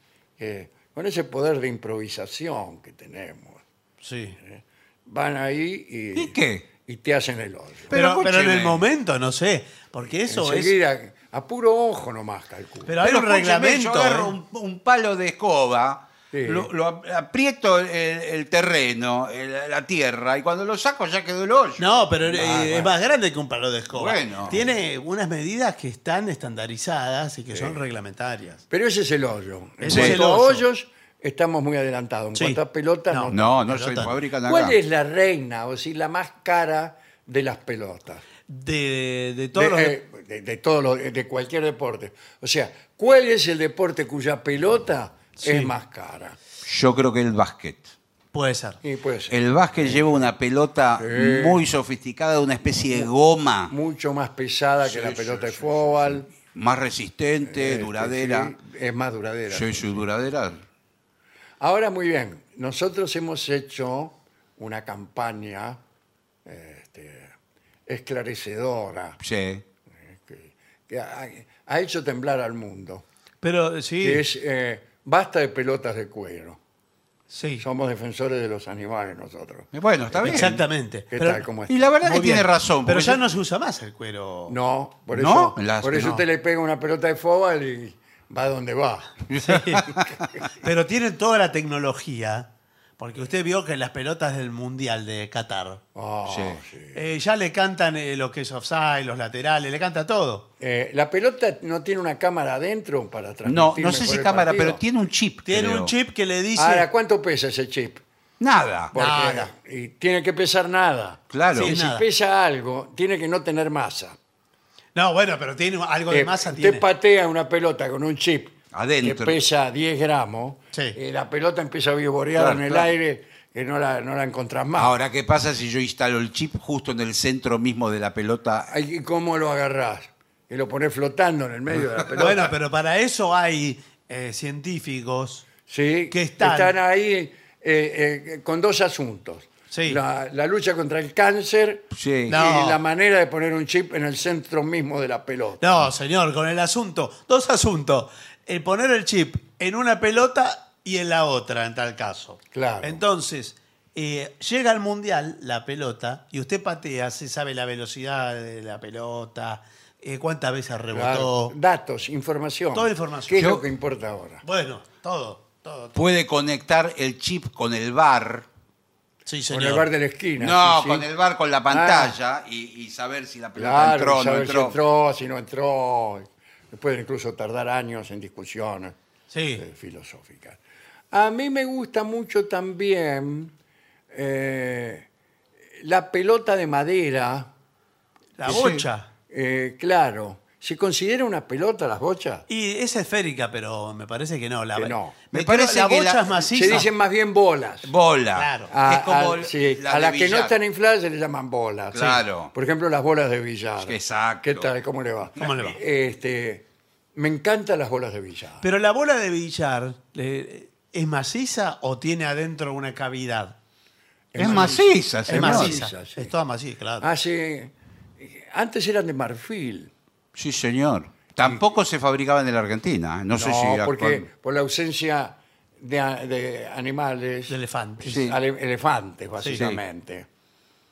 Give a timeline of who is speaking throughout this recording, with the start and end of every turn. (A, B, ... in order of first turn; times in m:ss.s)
0:00.4-0:03.6 A
0:04.0-0:04.4 B
0:04.4-0:07.9 A
0:06.2-0:06.7 C
0:07.9-0:08.8 C
0:07.9-0:10.8 B
0:10.2-0:13.0 A
0:12.9-0:14.3 B
0:13.0-0:22.6 C
0:16.3-0:16.7 A
0:21.8-0:28.6 B
0:22.3-0:22.9 A
0:23.9-0:24.6 C
0:27.5-0:27.8 A
0:28.7-0:33.5 A
0:29.8-0:30.6 B
0:29.9-0:30.2 C
0:32.4-0:34.1 B
0:33.3-0:34.8 C
0:34.4-0:38.2 A
0:38.5-0:40.0 B
0:39.5-0:46.4 A
0:45.4-0:45.7 B
0:46.6-0:47.9 C
0:48.3-0:48.8 B
0:48.8-0:50.3 A
0:49.3-0:53.7 C
0:51.0-0:51.6 A
0:53.7-0:56.3 A
0:54.8-0:58.5 C
0:57.4-1:00.0 A
0:59.5-1:00.6 C
1:01.6-1:05.8 A
1:06.5-1:07.3 A
1:07.9-1:09.2 A
1:09.2-1:09.6 C
1:10.1-1:13.0 A
1:13.4-1:14.2 B
1:14.0-1:16.6 A
1:17.3-1:17.6 B
1:17.6-1:20.4 A
1:19.7-1:20.6 C
1:20.2-1:21.5 B
1:21.1-1:21.7 A
1:21.7-1:23.2 C
1:22.0-1:24.6 B
1:24.5-1:29.2 A
1:25.1-1:26.2 C
1:29.3-1:30.3 C
1:29.4-1:29.9 B
1:30.6-1:35.8 B
1:36.0-1:37.0 A
1:36.2-1:36.6 C
1:36.9-1:40.5 B
1:40.6-1:44.8 A
1:43.4-1:45.9 C
1:45.4-1:46.9 B
1:46.6-1:48.0 A
1:48.4-1:48.9 C
1:48.9-1:54.2 A
1:48.9-1:49.5 B
1:51.3-1:51.7 C
1:51.5-1:52.1 B
1:55.0-1:56.8 B
1:56.1-2:05.0 A
1:58.7-1:59.4 C
2:02.4-2:02.9 C
2:04.7-2:08.7 C
2:08.7-2:12.5 A
2:12.2-2:15.5 B
2:15.7-2:25.6 A
2:16.1-2:16.8 B
2:19.7-2:20.0 B
2:21.9-2:22.4 C
2:22.3-2:22.8 B
2:25.6-2:41.6 B
2:32.5-2:33.0 A
2:40.9-2:44.4 A
2:42.7-2:43.4 B
2:43.4-2:43.6 C
2:44.4-2:46.0 B
2:45.9-2:48.5 C
2:49.3-2:49.9 B
2:49.5-2:51.1 A
2:50.4-2:54.8 C
2:51.7-2:52.2 A
2:53.6-2:59.0 A
2:59.3-2:59.6 B
2:59.6-3:00.6 A
3:01.1-3:03.5 A
3:04.1-3:05.1 A
3:05.8-3:07.5 A
3:08.4-3:09.1 B
3:08.5-3:08.8 C
3:09.3-3:12.4 A
3:12.5-3:16.9 B
3:14.8-3:15.2 A
3:15.3-3:16.8 C
3:16.4-3:17.9 A
3:17.8-3:20.6 C
3:18.4-3:18.8 B
3:18.7-3:26.6 A
3:21.9-3:22.5 C
3:23.8-3:24.7 C
3:25.4-3:25.8 B
3:27.2-3:28.6 A
3:28.6-3:33.6 B
3:34.3-3:36.3 A
3:34.4-3:35.8 C
3:34.4-3:37.1 B
3:37.0-3:39.9 A
3:40.4-3:44.2 C
3:43.3-3:50.3 A
3:47.5-3:48.2 B
3:48.0-3:48.4 C
3:49.4-3:49.7 B
3:49.6-3:49.8 C